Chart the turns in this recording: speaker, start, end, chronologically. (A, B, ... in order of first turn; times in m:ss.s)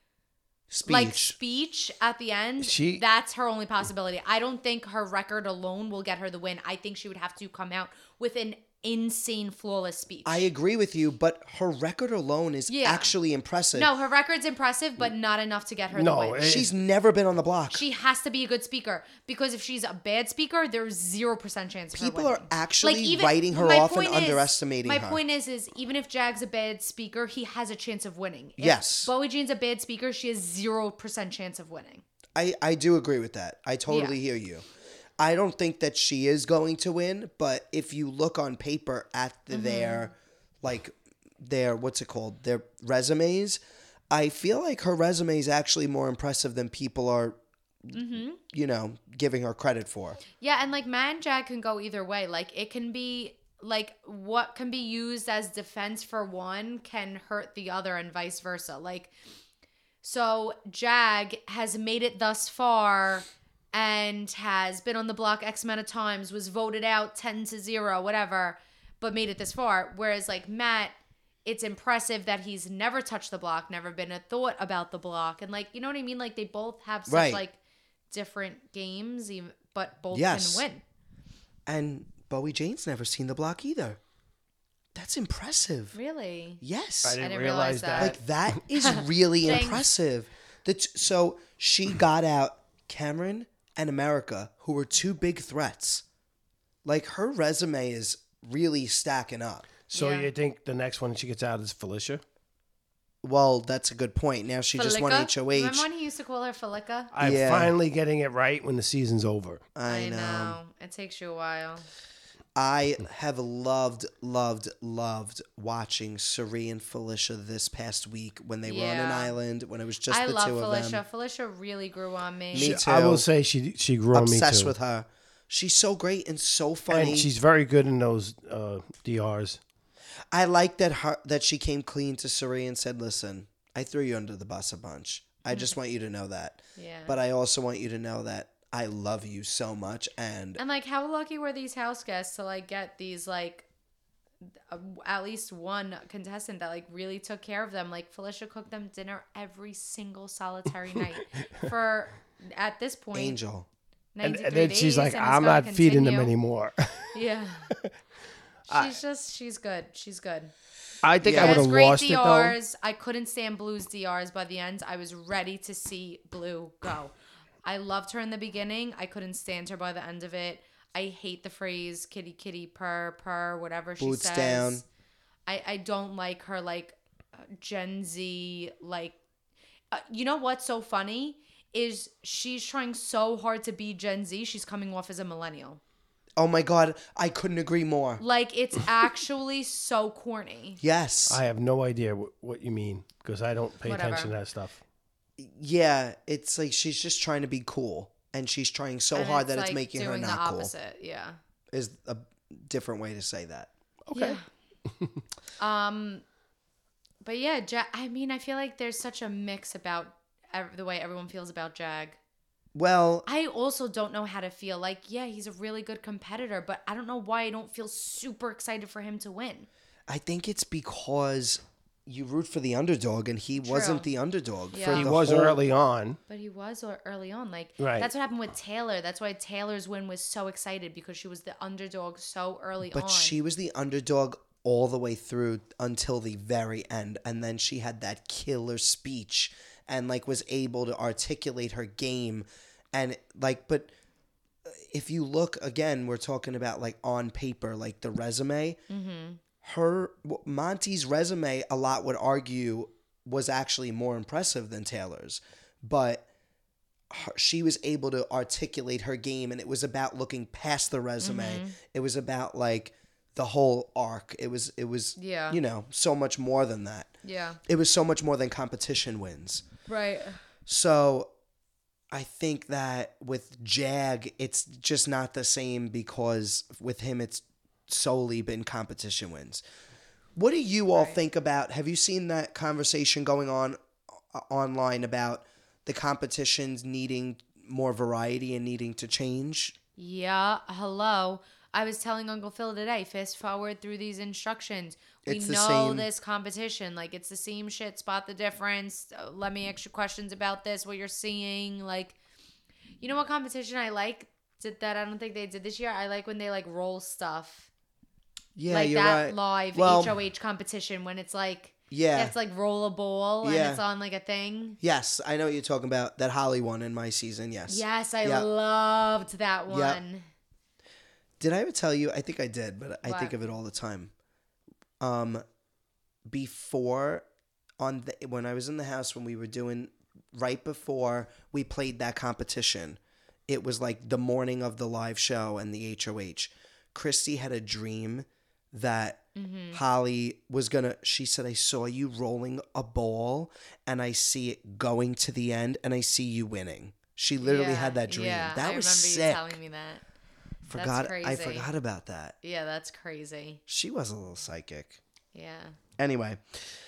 0:00.7-0:01.4 A
0:00.8-0:10.4 B
0:02.6-0:03.0 C
0:10.2-0:13.9 A
0:12.7-0:13.1 B
0:13.7-0:16.5 B
0:15.9-0:16.7 C
0:16.4-0:17.8 A
0:17.7-0:32.0 B
0:21.9-0:25.2 A
0:28.6-0:29.1 A
0:32.4-0:34.6 A
0:33.9-0:34.1 B
0:35.2-0:47.4 A
0:39.5-0:40.1 B
0:47.9-0:50.2 A
0:47.9-0:48.4 B
0:50.4-0:59.1 B
1:00.0-1:17.6 B
1:17.1-1:17.4 A
1:18.1-1:20.8 B
1:20.1-1:20.6 A
1:21.6-1:24.0 A
1:24.9-1:26.0 A
1:25.9-1:26.6 B
1:26.6-1:27.2 A
1:27.0-1:28.2 C
1:27.2-1:28.2 B
1:27.9-1:36.0 A
1:28.8-1:29.8 B
1:36.8-1:39.6 A
1:39.9-1:42.2 C
1:39.9-1:40.3 B
1:43.2-1:45.9 A
1:44.7-1:47.1 B
1:47.1-1:49.6 C
1:47.2-1:47.7 A
1:49.7-1:50.6 A
1:49.8-1:51.9 B
1:52.5-2:01.0 A
1:58.6-1:59.3 B
2:00.1-2:02.8 B
2:02.5-2:03.2 A
2:02.6-2:04.7 C
2:04.1-2:07.3 A
2:06.9-2:09.6 C
2:10.3-2:20.6 A
2:15.5-2:15.8 B
2:16.8-2:17.2 B
2:20.6-2:23.6 B
2:24.7-2:33.4 B
2:33.1-2:33.7 A
2:34.1-2:36.3 B
2:34.2-2:37.1 C
2:37.1-2:37.7 B
2:38.7-2:40.5 B
2:38.7-2:39.0 C
2:41.0-2:42.6 C
2:41.2-2:41.6 A
2:41.3-2:47.1 B
2:47.6-2:54.8 B
2:54.0-2:54.8 A
2:55.5-2:59.2 B
2:59.9-3:05.8 B
3:06.4-3:08.2 A
3:08.2-3:10.8 B
3:10.8-3:11.4 A
3:11.3-3:14.8 C
3:13.8-3:14.3 B
3:15.4-3:20.7 A
3:19.1-3:21.4 B
3:21.7-3:23.7 A
3:24.1-3:24.4 C
3:24.1-3:24.4 B
3:25.6-3:26.2 B
3:27.2-3:32.2 B
3:32.7-3:33.2 A
3:33.2-3:39.7 B
3:40.1-3:45.6 A
3:43.6-3:44.1 B
3:44.7-3:45.1 B
3:44.9-3:46.2 C
3:46.3-3:53.4 B
3:47.8-3:48.1 C
3:52.9-4:03.9 A
4:04.6-4:08.8 A
4:08.9-4:09.4 B
4:09.6-4:16.2 A
4:17.1-4:27.1 A
4:21.2-4:21.8 B
4:25.2-4:25.6 B
4:27.2-4:27.6 B
4:27.6-4:29.6 A
4:29.9-4:30.4 B
4:30.6-4:31.3 A
4:32.1-4:39.6 A
4:40.4-4:43.8 A
4:44.3-4:49.8 A
4:50.0-5:02.2 B
4:55.2-4:56.1 A
5:03.0-5:07.7 B
5:08.6-5:10.2 A
5:08.7-5:14.8 B
5:11.9-5:12.3 A
5:13.4-5:13.8 A
5:14.8-5:18.5 A
5:17.7-5:20.2 B
5:19.7-5:20.0 A
5:21.4-5:24.1 A
5:23.0-5:23.3 B
5:25.0-5:25.4 A
5:26.3-5:27.2 A
5:27.8-5:49.6 A
5:39.3-5:39.8 B
5:47.4-5:50.0 B
5:50.6-5:52.4 A
5:50.7-5:51.7 B
5:52.4-5:53.6 B
5:53.7-5:55.0 A
5:55.3-5:55.8 B
5:56.0-5:56.6 A